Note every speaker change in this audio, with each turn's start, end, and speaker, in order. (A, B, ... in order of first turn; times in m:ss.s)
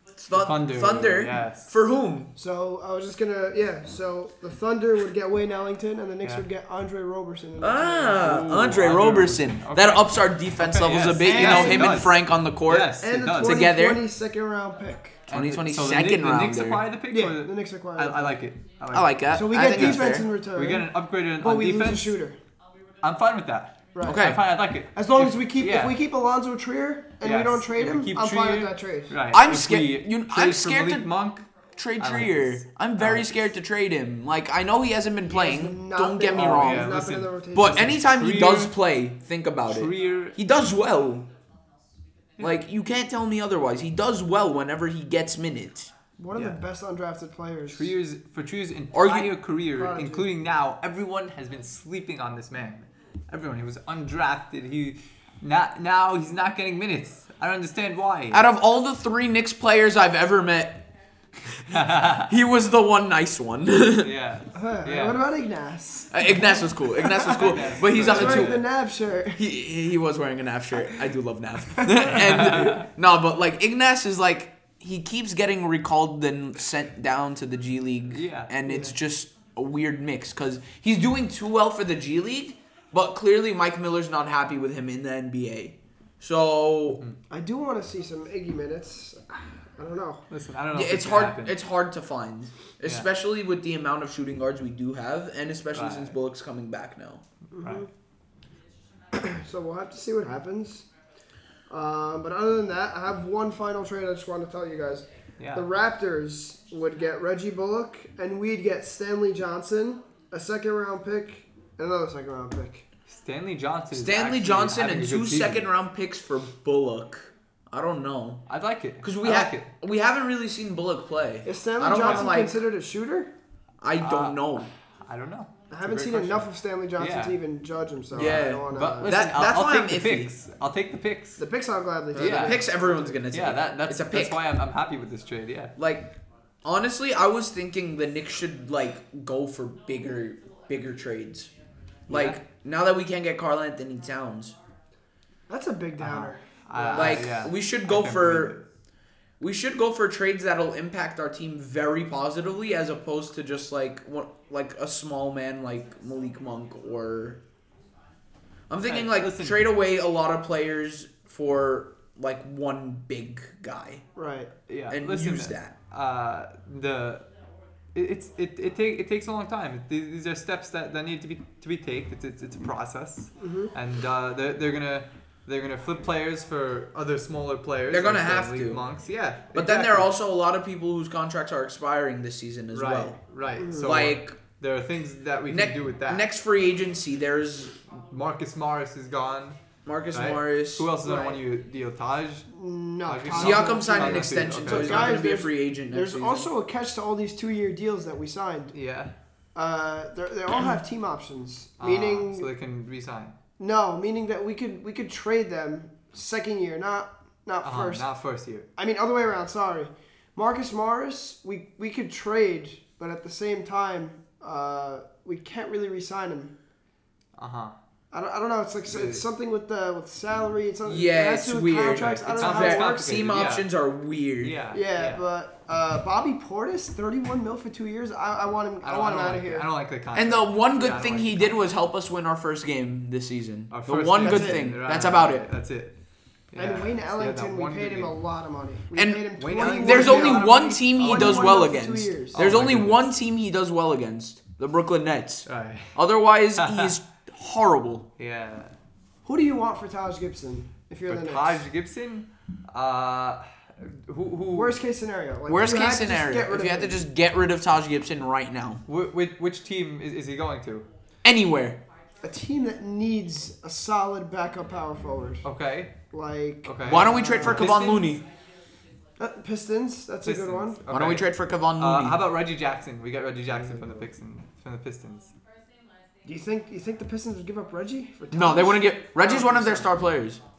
0:00.2-0:02.3 A
0:00.3-0:01.7 B
0:02.4-0:08.6 C
0:07.6-0:14.0 A
0:08.2-0:13.6 B
0:11.2-0:12.1 C
0:13.0-0:15.2 C
0:15.3-0:16.8 A
0:15.3-0:22.2 B
0:17.1-0:18.4 C
0:18.9-0:20.3 A
0:19.3-0:20.9 C
0:21.4-0:22.4 C
0:23.0-0:26.0 B
0:23.9-0:24.3 C
0:24.0-0:24.5 A
0:24.9-0:29.1 C
0:27.2-0:31.5 B
0:29.3-0:31.1 A
0:31.8-0:36.9 A
0:32.0-0:33.3 B
0:35.3-0:37.9 C
0:36.3-0:38.8 B
0:37.5-0:41.3 A
0:39.7-0:40.4 B
0:42.4-0:45.9 A
0:46.2-0:47.9 C
0:46.3-0:46.6 B
0:47.7-0:58.4 B
0:48.9-0:49.3 A
0:49.8-0:50.3 C
0:58.3-1:00.8 A
1:01.7-1:02.3 B
1:02.2-1:04.1 A
1:04.0-1:05.2 B
1:04.5-1:09.4 C
1:06.1-1:08.6 A
1:07.2-1:08.6 B
1:09.3-1:27.0 A
1:12.1-1:12.9 B
1:18.1-1:18.5 B
1:27.3-1:30.2 C
1:30.3-1:31.6 B
1:30.7-1:37.2 A
1:35.7-1:36.1 B
1:37.5-1:37.9 C
1:37.6-1:37.8 B
1:39.1-1:40.9 C
1:41.7-1:52.8 C
1:45.4-1:45.6 B
1:53.1-1:55.6 B
1:53.9-1:58.4 A
1:58.5-1:59.7 B
1:59.0-2:02.6 A
2:01.4-2:03.3 C
2:01.9-2:02.3 B
2:03.8-2:04.7 A
2:04.0-2:04.4 B
2:05.0-2:06.5 B
2:05.7-2:09.1 C
2:07.0-2:07.4 B
2:08.1-2:10.3 A
2:08.2-2:11.4 B
2:11.4-2:13.2 C
2:12.1-2:14.4 A
2:12.1-2:12.6 B
2:13.3-2:15.7 B
2:15.8-2:21.5 A
2:22.1-2:22.4 B
2:22.1-2:24.6 A
2:25.5-2:27.2 C
2:26.0-2:28.6 B
2:26.9-2:28.6 A
2:29.4-2:37.4 A
2:38.7-2:44.0 A
2:38.8-2:39.6 B
2:44.2-2:44.5 C
2:44.7-2:47.3 B
2:44.9-2:45.7 A
2:47.9-3:00.1 B
2:53.4-2:53.7 C
2:57.9-2:58.8 A
2:59.5-3:03.2 A
3:02.7-3:06.3 B
3:03.6-3:04.0 C
3:03.8-3:04.4 A
3:05.5-3:07.8 A
3:08.0-3:09.6 B
3:09.8-3:10.9 A
3:10.1-3:12.5 B
3:11.0-3:11.4 C
3:12.5-3:18.7 C
3:13.0-3:15.2 B
3:13.3-3:16.5 A
3:18.7-3:19.1 B
3:19.5-3:22.5 C
3:21.8-3:23.4 B
3:23.6-3:28.1 C
3:27.6-3:28.7 B
3:28.8-3:36.5 C
3:37.4-3:37.8 B
3:38.1-3:43.1 C
3:38.9-3:39.2 B
3:40.8-3:44.6 A
3:41.9-3:43.7 B
3:44.4-3:45.2 B
3:44.7-3:49.7 C
3:48.8-3:51.6 B
3:50.1-3:55.4 A
3:53.7-3:55.9 B
3:54.2-3:54.6 C
3:56.5-3:58.1 B
3:56.6-4:02.4 C
3:58.9-4:08.0 A
3:59.4-4:01.7 B
4:02.3-4:03.1 B
4:05.4-4:06.0 B
4:06.6-4:06.9 B
4:08.2-4:08.7 B
4:09.2-4:11.6 C
4:11.1-4:14.8 B
4:14.5-4:17.0 C
4:15.5-4:18.8 A
4:18.8-4:20.8 B
4:21.2-4:21.8 A
4:22.2-4:25.4 C
4:25.4-4:25.9 B
4:26.1-4:27.7 C
4:26.6-4:28.2 B
4:26.8-4:28.2 A
4:29.2-4:30.8 C
4:30.2-4:35.3 B
4:30.9-4:32.2 A
4:33.6-4:34.0 C
4:36.2-4:39.9 C
4:38.3-4:40.4 A